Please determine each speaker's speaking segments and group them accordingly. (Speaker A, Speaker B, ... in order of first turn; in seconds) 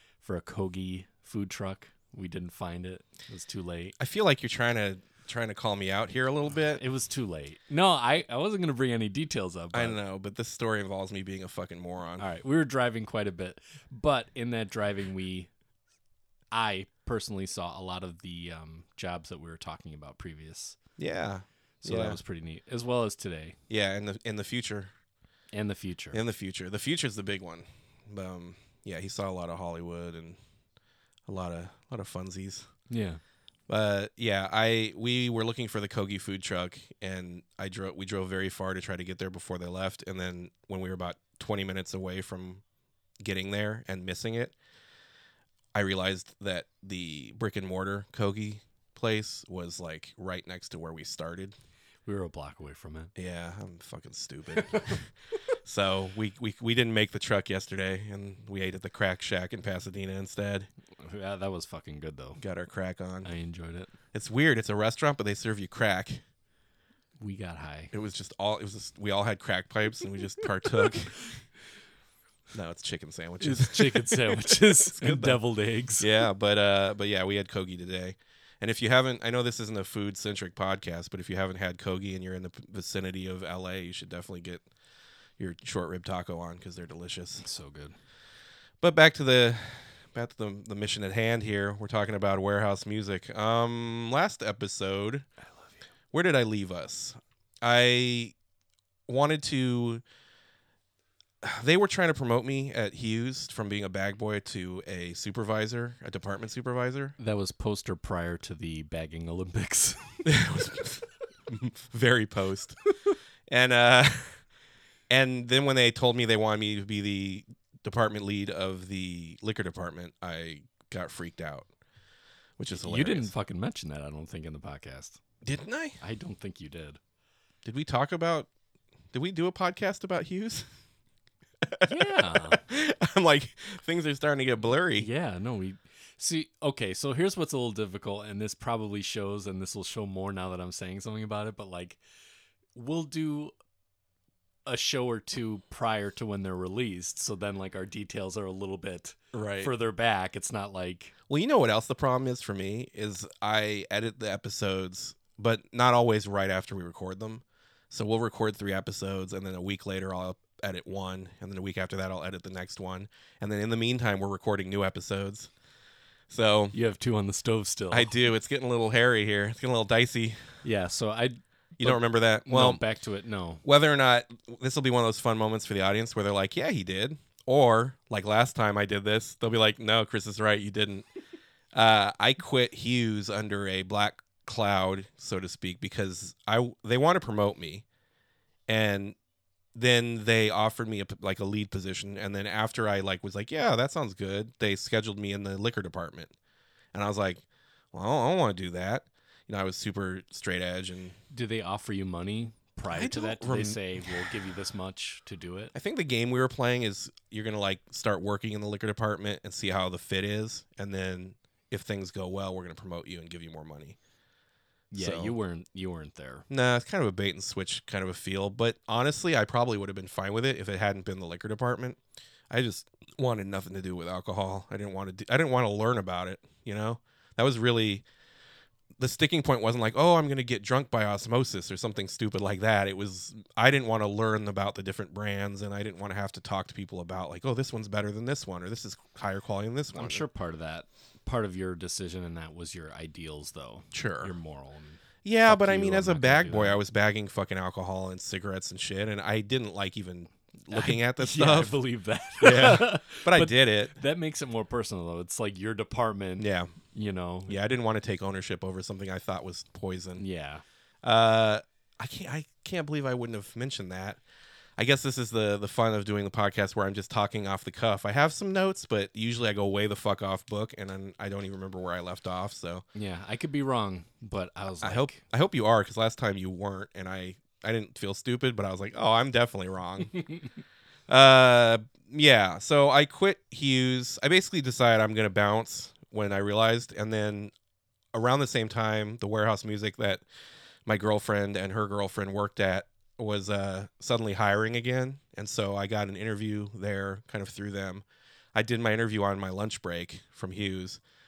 Speaker A: 0.2-4.0, 6.5-10.0, 12.2-15.5, 16.5-20.8, 21.8-23.6, 25.5-26.2, 32.9-33.2, 52.0-53.1, 54.5-55.0, 60.9-62.4, 63.2-63.9, 67.2-67.9, 73.4-76.1, 87.4-88.0, 107.2-110.2, 122.7-125.2, 126.0-127.0, 131.8-132.6, 134.9-142.0, 142.7-143.5, 144.7-151.1, 166.7-168.1, 170.6-173.6, 201.3-205.7, 214.9-216.5, 239.9-246.8, 250.7-257.6, 260.2-260.6, 272.9-275.2
Speaker B: 4.0-6.8, 9.7-12.2, 21.0-22.2, 23.7-24.9, 26.1-30.4, 31.2-32.7, 33.7-42.6, 43.2-44.5, 45.7-51.5, 53.1-60.7, 62.4-63.3, 64.1-66.2, 67.9-71.3, 72.5-75.4, 76.0-84.7, 85.4-87.4, 88.8-95.3, 96.1-98.3, 99.1-100.0, 101.4-107.1, 110.2-112.8, 113.5-114.5, 115.1-121.7, 122.6-123.3, 125.4-126.0, 127.6-128.5, 129.1-130.7, 131.7-135.1, 149.3-149.7, 151.3-165.5, 166.3-166.7, 167.9-170.6, 171.8-172.8, 173.6-181.1, 181.7-187.8, 188.7-189.2, 189.7-196.3, 196.9-201.2, 202.9-204.2, 205.7-214.0, 214.9-215.3, 216.5-222.0, 222.5-228.0, 229.0-240.2, 243.9-244.3, 245.2-251.7, 252.4-253.9, 256.4-256.8, 257.5-260.2, 261.0-264.2, 264.8-272.8, 274.8-280.2, 281.1-287.5, 288.1-290.2, 290.9-301.0